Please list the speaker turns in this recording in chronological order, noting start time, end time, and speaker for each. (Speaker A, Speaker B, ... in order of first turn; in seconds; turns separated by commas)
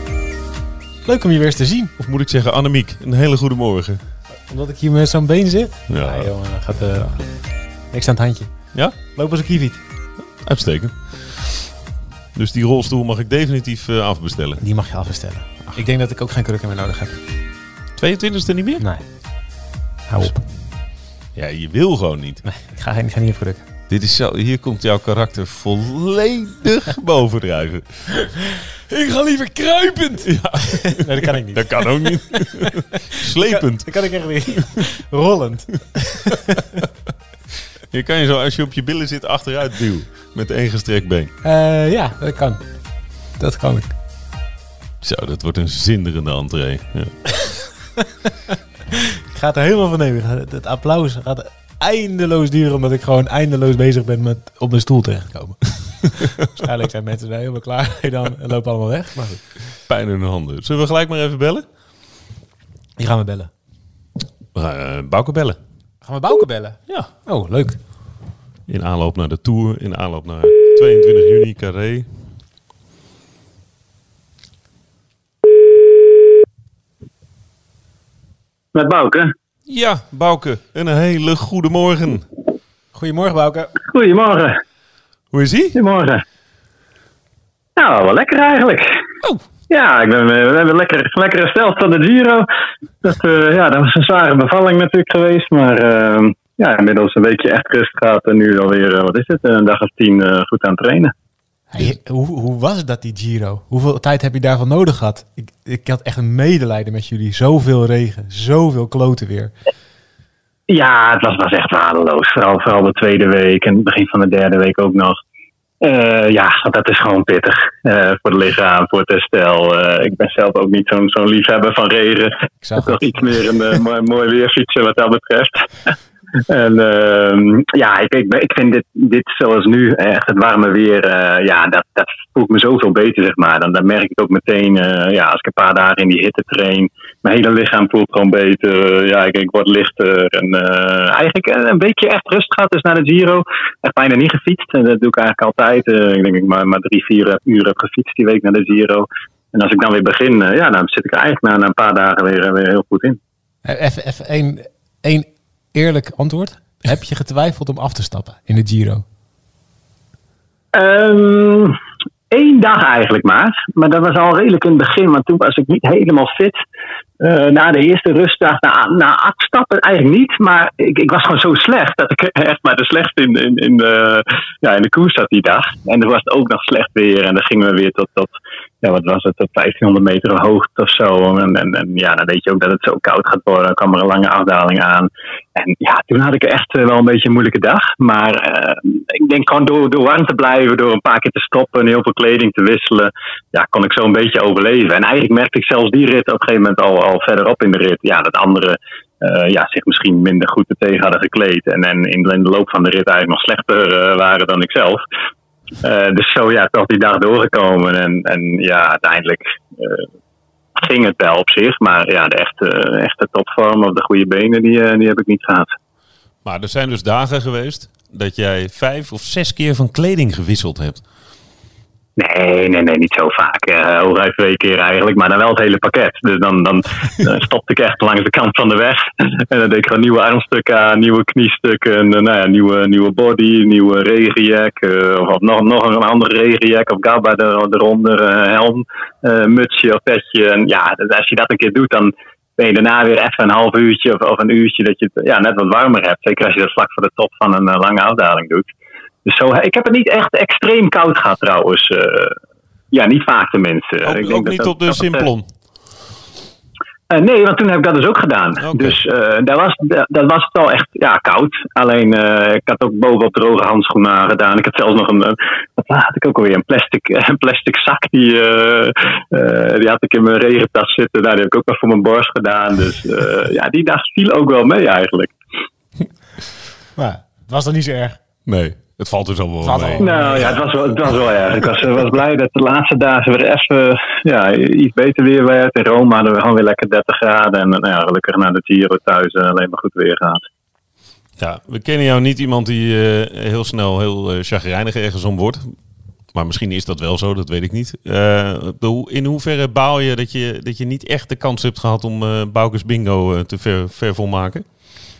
Speaker A: 1.0-1.9, Speaker B: 2.0-4.0, Speaker A: 4.5-7.3, Speaker B: 5.9-6.3, Speaker A: 7.9-9.8, Speaker B: 10.4-11.7, Speaker B: 12.3-14.6, Speaker A: 14.6-17.2, Speaker B: 18.0-18.8, Speaker A: 18.8-19.0, Speaker A: 20.1-20.4, Speaker B: 21.3-22.4, Speaker A: 22.4-23.6, Speaker B: 23.9-28.1, Speaker A: 28.9-36.6, Speaker B: 30.2-34.8, Speaker B: 37.9-41.3, Speaker A: 41.4-42.8, Speaker A: 43.3-43.9, Speaker B: 45.0-47.1, Speaker A: 49.3-59.6, Speaker B: 59.9-61.6, Speaker A: 63.0-63.5, Speaker B: 64.5-65.6, Speaker A: 66.0-67.8, Speaker B: 68.7-72.1, Speaker C: 78.7-79.3, Speaker B: 79.7-82.3, Speaker A: 82.9-83.8, Speaker C: 83.8-84.6, Speaker B: 85.3-85.8, Speaker C: 85.8-86.2, Speaker C: 87.8-89.0, Speaker C: 89.7-92.5, Speaker C: 93.0-101.1, Speaker A: 101.7-109.5, Speaker C: 110.7-115.2, Speaker C: 115.8-125.9, Speaker A: 122.6-123.3, Speaker C: 126.5-153.2, Speaker A: 153.6-159.0, Speaker C: 160.7-161.8, Speaker C: 162.3-166.6, Speaker C: 167.2-205.0, Speaker C: 205.8-210.1, Speaker C: 210.8-215.7, Speaker B: 216.4-221.0, Speaker C: 222.2-248.7, Speaker C: 249.2-252.3, Speaker C: 252.9-255.2, Speaker B: 254.0-255.5, Speaker C: 257.1-275.3, Speaker B: 258.6-259.0, Speaker A: 276.9-278.2, Speaker B: 278.4-280.5, Speaker A: 279.6-280.6, Speaker C: 280.0-290.4, Speaker B: 291.4-295.7, Speaker B: 296.3-304.6